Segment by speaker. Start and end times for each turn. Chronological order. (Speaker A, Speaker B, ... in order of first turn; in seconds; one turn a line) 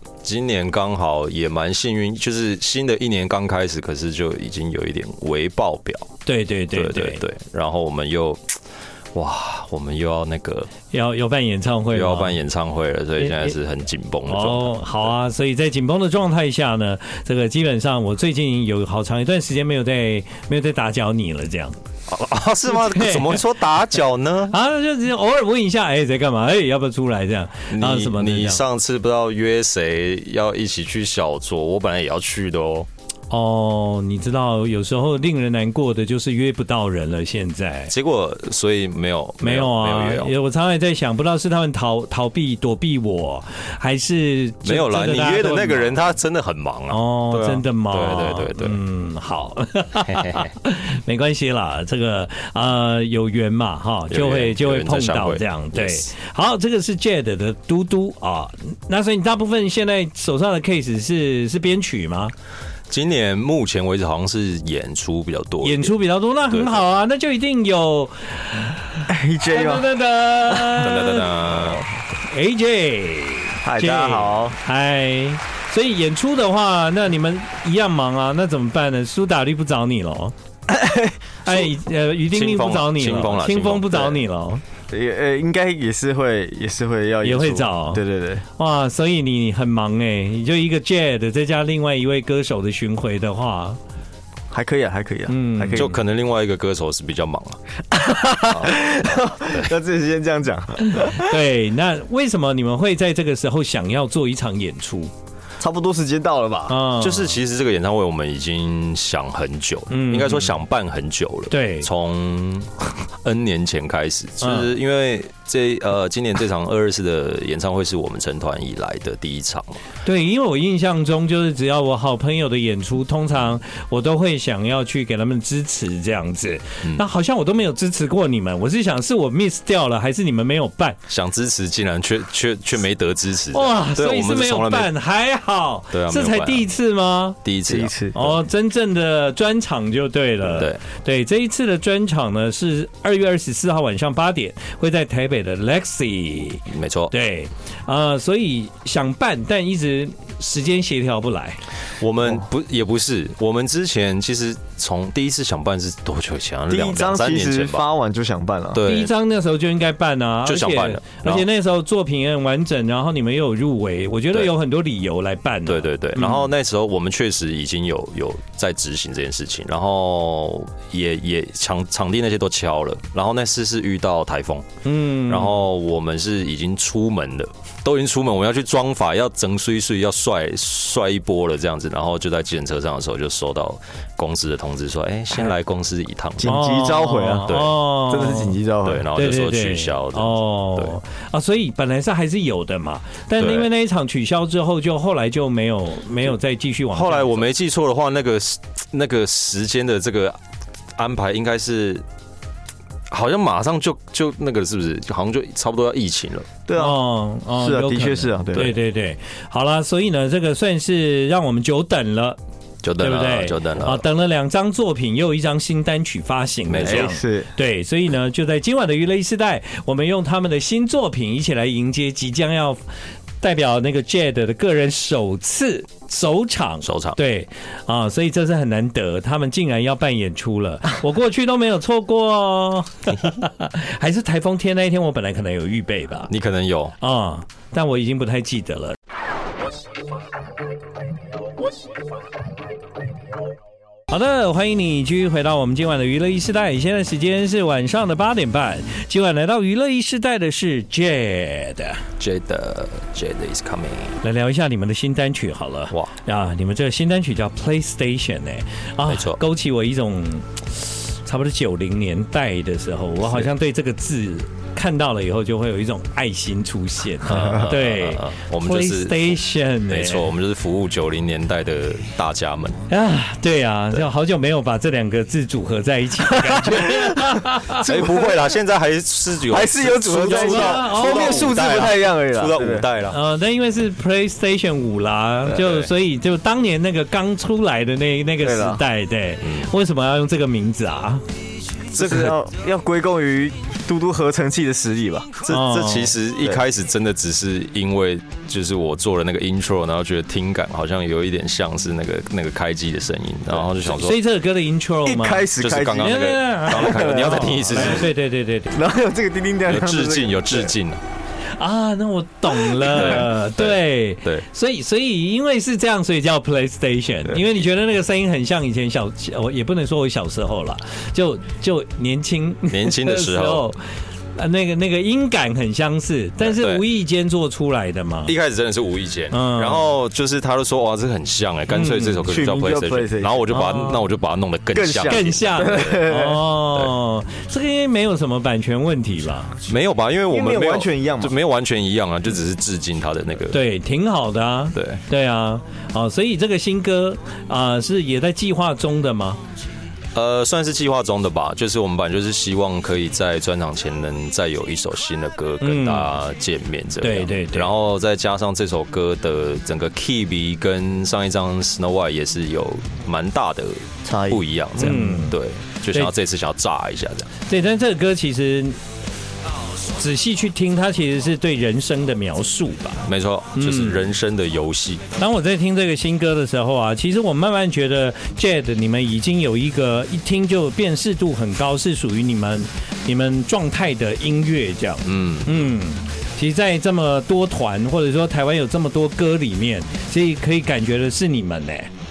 Speaker A: 0.2-6.1
Speaker B: 6.2-7.2
Speaker A: 6.7-8.6
Speaker A: 9.2-10.7
Speaker B: 10.9-12.4
Speaker A: 11.9-15.1
Speaker B: 13.2-13.6
Speaker B: 14.3-21.8
Speaker A: 22.1-24.6
Speaker B: 22.7-23.4
Speaker B: 24.5-28.6
Speaker A: 27.7-32.9
Speaker B: 33.3-37.9
Speaker A: 37.9-40.3
Speaker B: 39.4-46.0
Speaker A: 44.6-48.8
Speaker B: 46.9-62.3
Speaker A: 50.1-50.5
Speaker A: 54.1-56.1
Speaker A: 62.9-65.9
Speaker B: 65.6-71.3
Speaker A: 66.5-66.8
Speaker C: 69.1-69.9
Speaker A: 70.8-71.9
Speaker B: 72.1-80.3
Speaker C: 73.6-74.6
Speaker C: 80.7-81.2
Speaker B: 81.5-84.6
Speaker A: 82.3-84.2
Speaker C: 84.9-88.4
Speaker B: 87.2-88.0
Speaker B: 88.6-93.8
Speaker C: 94.5-96.0
Speaker B: 95.3-95.9
Speaker A: 95.8-97.6
Speaker C: 97.9-101.4
Speaker A: 98.5-98.8
Speaker B: 100.9-105.1
Speaker C: 105.6-106.8
Speaker B: 106.7-107.4
Speaker A: 107.0-119.8
Speaker B: 109.9-110.5
Speaker B: 111.5-111.9
Speaker B: 114.4-114.7
Speaker B: 120.0-131.0
Speaker A: 131.1-134.9
Speaker B: 133.5-137.4
Speaker A: 135.9-136.7
Speaker A: 137.4-138.4
Speaker C: 137.7-138.2
Speaker B: 138.1-151.6
Speaker A: 140.4-140.8
Speaker A: 146.7-147.1
Speaker A: 152.0-157.8
Speaker C: 156.7-158.8
Speaker A: 158.7-159.1
Speaker B: 158.8-166.5
Speaker A: 160.5-161.4
Speaker A: 165.7-174.7
Speaker B: 174.8-175.6
Speaker A: 175.2-186.5
Speaker C: 186.4-189.1
Speaker B: 186.4-188.6
Speaker A: 187.5-187.8
Speaker A: 188.8-190.9
Speaker B: 189.1-197.5
Speaker A: 193.4-193.7
Speaker A: 196.9-200.4
Speaker A: 201.0-202.1
Speaker A: 203.1-206.5
Speaker C: 206.7-207.0
Speaker B: 206.8-212.4
Speaker C: 207.6-208.8
Speaker A: 212.8-214.0
Speaker B: 213.0-222.8
Speaker A: 216.7-217.1
Speaker C: 216.8-217.5
Speaker B: 223.4-236.3
Speaker A: 226.8-227.2
Speaker A: 236.3-237.0
Speaker B: 237.0-239.0
Speaker B: 244.1-252.0
Speaker A: 252.2-254.2
Speaker B: 254.2-270.3
Speaker A: 259.1-259.4
Speaker A: 263.2-263.5
Speaker A: 267.3-269.3
Speaker A: 269.9-272.8
Speaker B: 272.9-277.9
Speaker C: 276.4-278.4
Speaker A: 277.8-283.2
Speaker C: 279.5-282.9
Speaker B: 280.2-281.6
Speaker B: 283.1-291.2
Speaker C: 288.4-288.8
Speaker A: 289.4-289.7
Speaker A: 291.9-292.3
Speaker C: 291.9-295.3
Speaker A: 295.4-304.2
Speaker B: 295.5-296.1
Speaker B: 303.9-308.8
Speaker C: 305.0-306.2
Speaker A: 305.6-308.1
Speaker C: 306.8-308.0
Speaker C: 308.7-310.8
Speaker A: 309.7-311.0
Speaker B: 311.6-323.8
Speaker A: 312.8-314.4
Speaker A: 322.7-323.7
Speaker B: 324.3-328.3
Speaker A: 326.5-326.8
Speaker A: 328.3-336.1
Speaker B: 329.3-329.8
Speaker B: 331.7-332.3
Speaker C: 332.3-333.4
Speaker B: 333.5-334.0
Speaker C: 334.7-336.4
Speaker B: 335.1-339.6
Speaker A: 339.6-343.6
Speaker C: 340.3-341.3
Speaker B: 343.5-349.4
Speaker A: 344.7-345.0
Speaker A: 350.1-367.3
Speaker B: 355.6-356.1
Speaker B: 357.0-357.7
Speaker C: 364.0-364.9
Speaker B: 364.8-365.4
Speaker B: 367.5-368.8
Speaker B: 369.9-374.1
Speaker A: 373.1-375.0
Speaker B: 375.2-391.9
Speaker A: 385.1-385.6